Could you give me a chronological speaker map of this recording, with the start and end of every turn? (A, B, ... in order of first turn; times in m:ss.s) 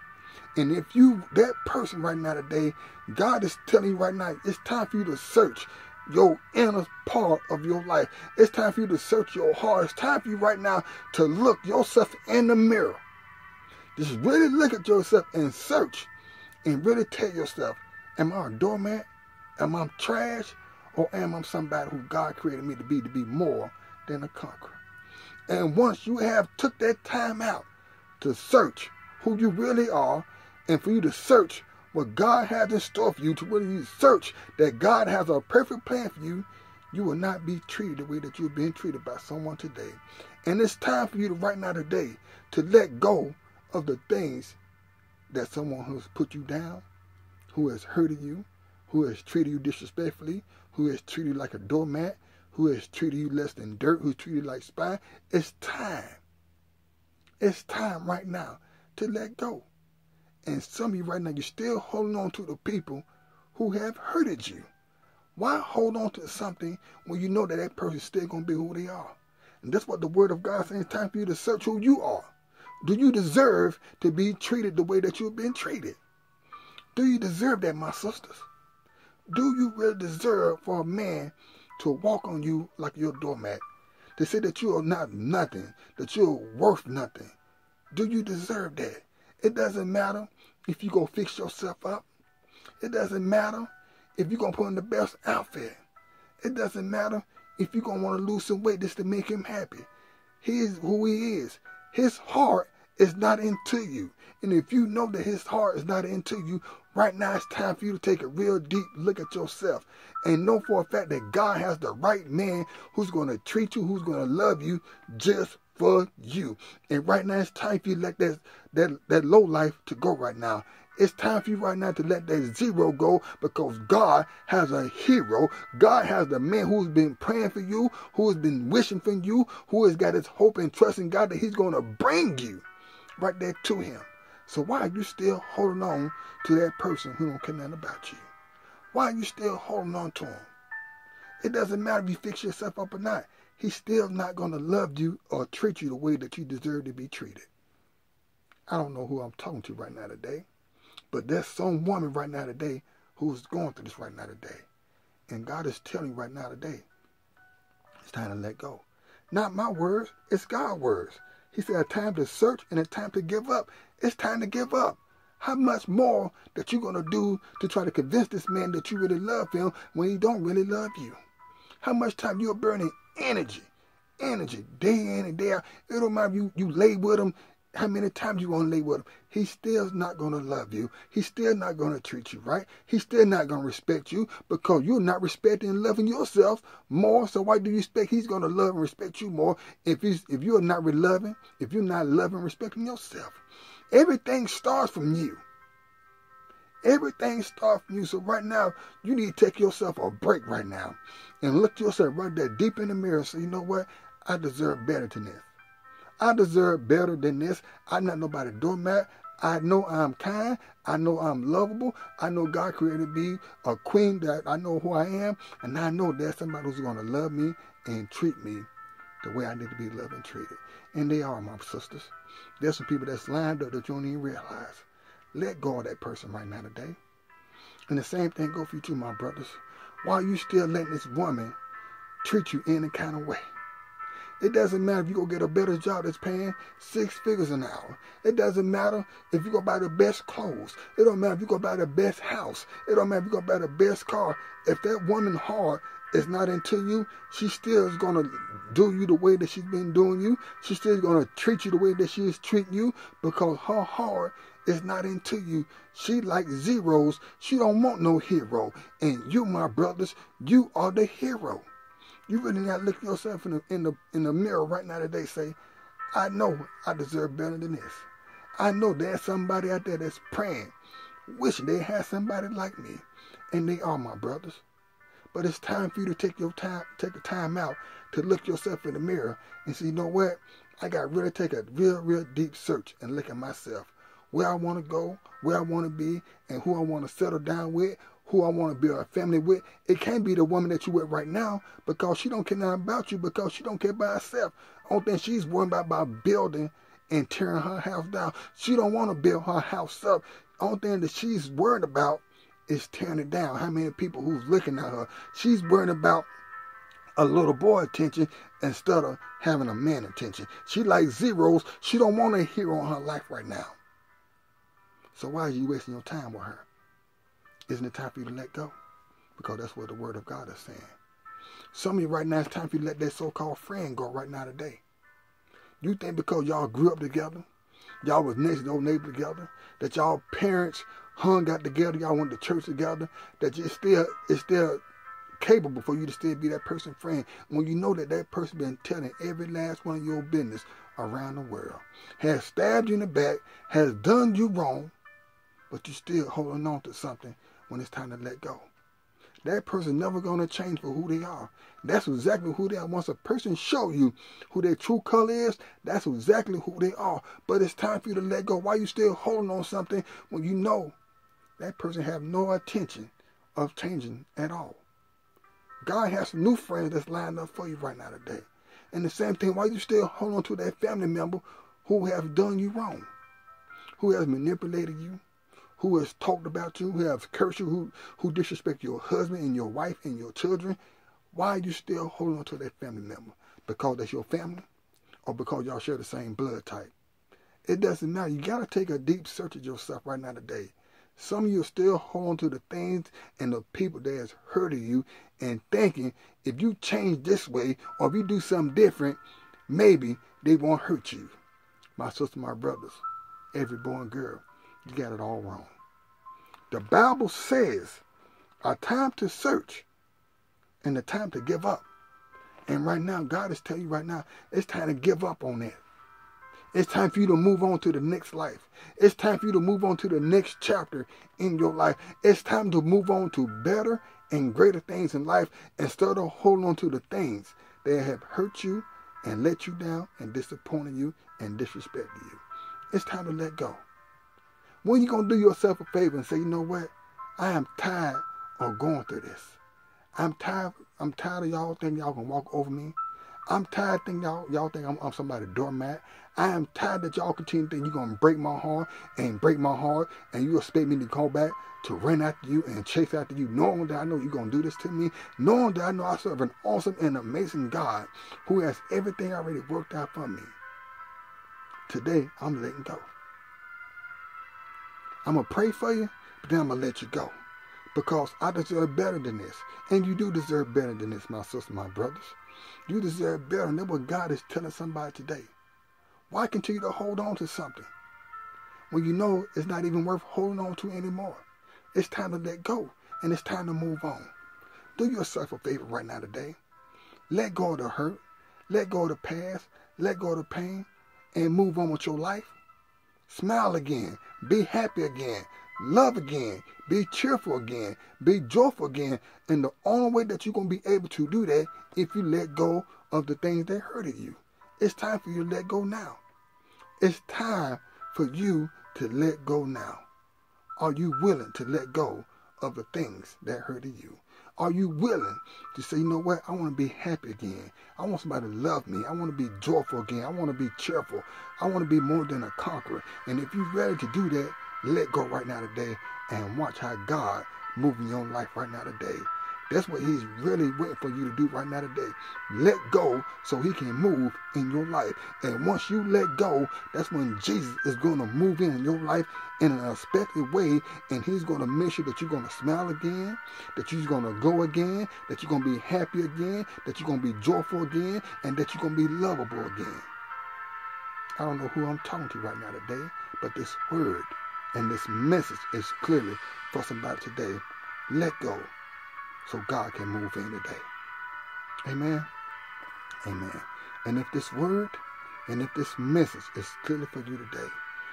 0:00.6-0:13.0 A
0:14.0-0:16.1 A
0:16.6-0:24.8 A
0:25.5-0:27.7 A
0:28.2-0:44.6 A
0:45.3-0:46.8 A
0:47.5-0:56.2 A
0:57.4-0:59.7 A
1:00.4-1:04.7 A
1:05.4-1:12.3 A
1:12.8-1:16.0 A
1:16.9-1:18.5 A
1:19.3-1:23.6 A
1:24.2-1:27.3 A
1:27.9-1:32.0 A
1:32.8-1:35.8 A
1:36.4-1:39.9 A
1:40.4-2:12.6 A
2:13.2-2:18.3 A
2:18.9-2:20.5 A
2:21.4-2:27.5 A
2:28.7-2:30.4 A
2:31.1-2:34.7 A
2:35.3-2:36.9 A
2:38.0-2:51.2 A
2:51.8-3:15.4 A
3:16.8-3:25.5 A
3:26.2-3:38.7 A
3:39.2-3:47.0 A
3:47.9-3:51.6 A
3:52.2-3:53.4 A
3:54.4-4:21.7 A
4:22.3-4:25.6 A
4:26.1-4:30.7 A
4:31.3-4:34.6 A
4:35.3-5:06.3 A
5:07.2-5:13.8 A
5:15.1-5:16.7 A
5:17.7-5:18.7 A
5:19.4-5:21.0 A
5:21.7-5:24.8 A
5:25.8-5:27.5 A
5:28.0-5:34.8 A
5:35.4-5:44.9 A
5:45.7-5:48.7 A
5:49.4-6:00.9 A
6:01.6-6:04.8 A
6:05.8-6:13.1 A
6:14.0-6:15.2 A
6:15.8-6:20.8 A
6:21.3-6:24.7 A
6:25.2-6:26.9 A
6:27.6-6:41.4 A
6:42.0-6:45.7 A
6:46.7-6:48.0 A
6:48.6-6:49.9 A
6:50.8-6:51.8 A
6:52.7-6:55.8 A
6:56.7-7:13.8 A
7:14.8-7:19.6 A
7:20.2-7:40.6 A
7:41.9-7:43.1 A
7:45.2-7:47.3 A
7:47.9-7:55.5 A
7:56.3-7:57.9 A
7:58.9-8:04.3 A
8:05.0-8:06.6 A
8:07.3-8:12.6 A
8:13.3-8:26.2 A
8:27.0-8:30.0 A
8:30.8-9:10.1 A
9:11.4-9:18.7 A
9:19.4-9:20.9 A
9:21.8-9:22.3 A
9:23.2-9:27.8 A